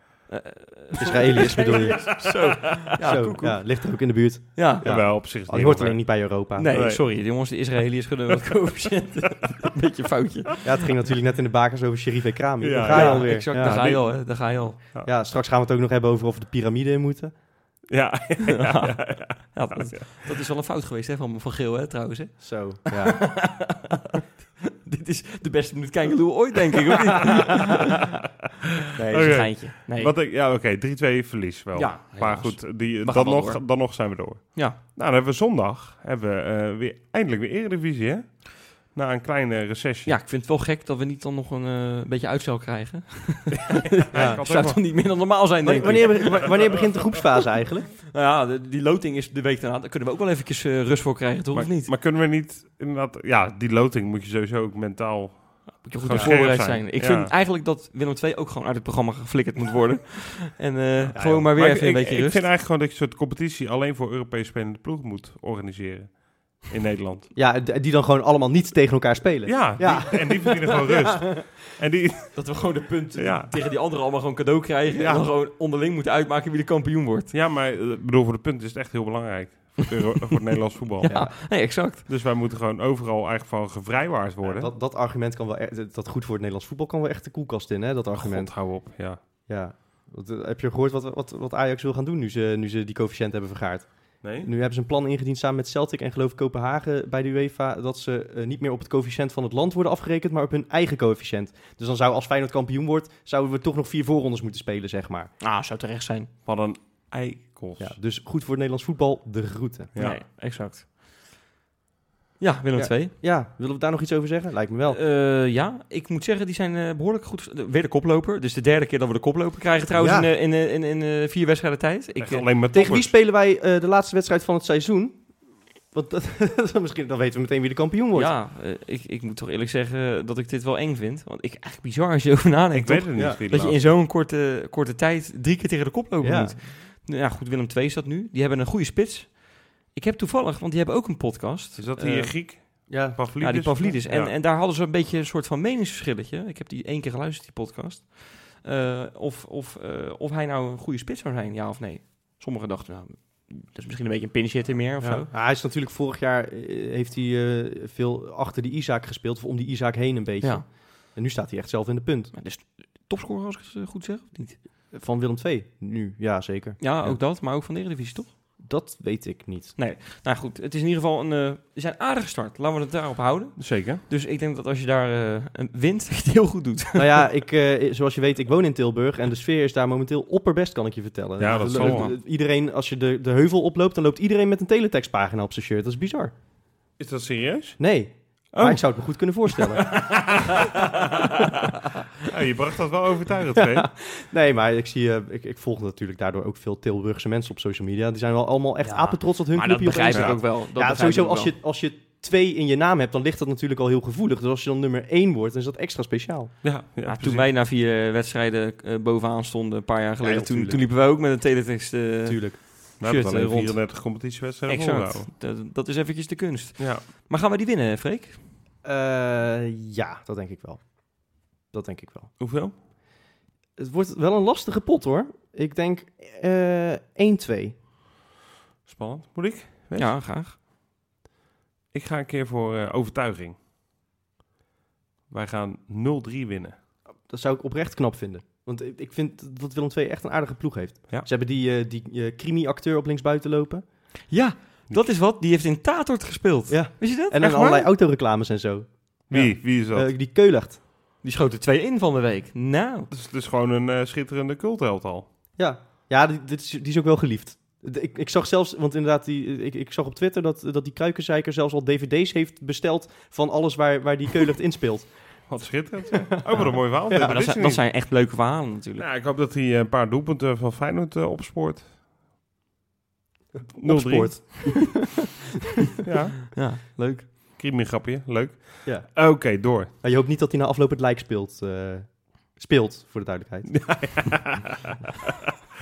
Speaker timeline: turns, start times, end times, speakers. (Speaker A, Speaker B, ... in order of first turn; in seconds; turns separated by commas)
Speaker A: 0.3-3.8, Speaker B: 1.0-2.2, Speaker C: 1.5-2.6, Speaker B: 3.0-6.7, Speaker A: 4.5-4.8, Speaker C: 4.8-7.0, Speaker A: 6.5-10.7, Speaker B: 10.6-13.8, Speaker C: 12.6-15.1, Speaker A: 12.9-14.8, Speaker B: 15.0-17.3, Speaker C: 17.9-20.1, Speaker A: 18.4-28.1, Speaker B: 22.4-23.6, Speaker C: 27.2-27.7, Speaker A: 29.0-30.1, Speaker B: 29.0-29.4, Speaker C: 29.0-40.2, Speaker A: 31.7-33.8, Speaker A: 34.5-34.8, Speaker A: 40.0-46.6, Speaker C: 44.0-44.8, Speaker B: 44.1-44.4, Speaker B: 45.6-47.9, Speaker C: 45.9-47.0, Speaker A: 48.1-51.9, Speaker C: 51.5-57.3, Speaker A: 55.8-62.5, Speaker B: 56.1-56.4, Speaker B: 61.1-61.5, Speaker C: 61.2-67.3, Speaker B: 67.3-71.5, Speaker C: 69.5-73.5, Speaker A: 72.3-77.3, Speaker C: 74.9-75.3, Speaker C: 77.3-84.7, Speaker B: 81.0-81.3, Speaker A: 81.0-82.0, Speaker B: 84.4-88.7, Speaker C: 88.1-89.2, Speaker B: 89.5-105.3, Speaker C: 94.2-94.5, Speaker A: 105.4-106.3, Speaker C: 106.5-107.9, Speaker B: 107.8-109.9, Speaker C: 109.9-110.2, Speaker A: 110.0-110.8, Speaker A: 112.4-113.1, Speaker B: 112.7-115.0, Speaker A: 114.9-122.5, Speaker B: 119.9-120.3, Speaker C: 122.2-123.1, Speaker B: 122.7-125.3, Speaker B: 125.9-128.3, Speaker A: 128.1-142.3, Speaker C: 132.7-133.9, Speaker B: 136.2-136.6, Speaker C: 141.8-144.3, Speaker B: 142.9-143.2, Speaker A: 143.4-155.3, Speaker B: 155.0-162.3, Speaker A: 162.3-164.6, Speaker B: 164.9-167.1, Speaker A: 166.8-168.3, Speaker B: 168.6-169.7, Speaker A: 169.8-177.2, Speaker C: 173.6-174.0, Speaker B: 176.9-186.3, Speaker C: 181.4-182.1, Speaker A: 181.5-182.1, Speaker C: 187.0-187.8, Speaker B: 187.8-191.3, Speaker C: 188.5-188.8, Speaker C: 189.5-193.9, Speaker B: 193.5-206.5, Speaker A: 198.8-201.5, Speaker C: 206.6-207.5, Speaker A: 207.0-218.4, Speaker B: 210.2-210.8, Speaker B: 212.2-212.6, Speaker C: 213.0-215.3, Speaker C: 216.8-217.0, Speaker B: 218.8-222.3, Speaker C: 222.4-222.7, Speaker B: 223.8-227.8, Speaker C: 228.8-230.1, Speaker A: 229.9-230.6, Speaker C: 231.9-233.6, Speaker C: 235.3-236.7, Speaker B: 237.3-243.8, Speaker A: 244.3-247.8, Speaker B: 246.7-250.8, Speaker C: 247.4-247.8, Speaker C: 249.3-250.1, Speaker A: 251.2-253.1, Speaker C: 253.1-255.3, Speaker B: 255.6-265.1, Speaker C: 265.5-267.8, Speaker B: 266.5-267.3, Speaker A: 267.1-269.0, Speaker C: 269.0-271.9, Speaker C: 273.8-275.0, Speaker B: 273.8-275.0, Speaker C: 276.0-276.6, Speaker A: 276.5-277.3, Speaker C: 277.5-279.9, Speaker B: 278.8-284.2, Speaker C: 283.8-285.3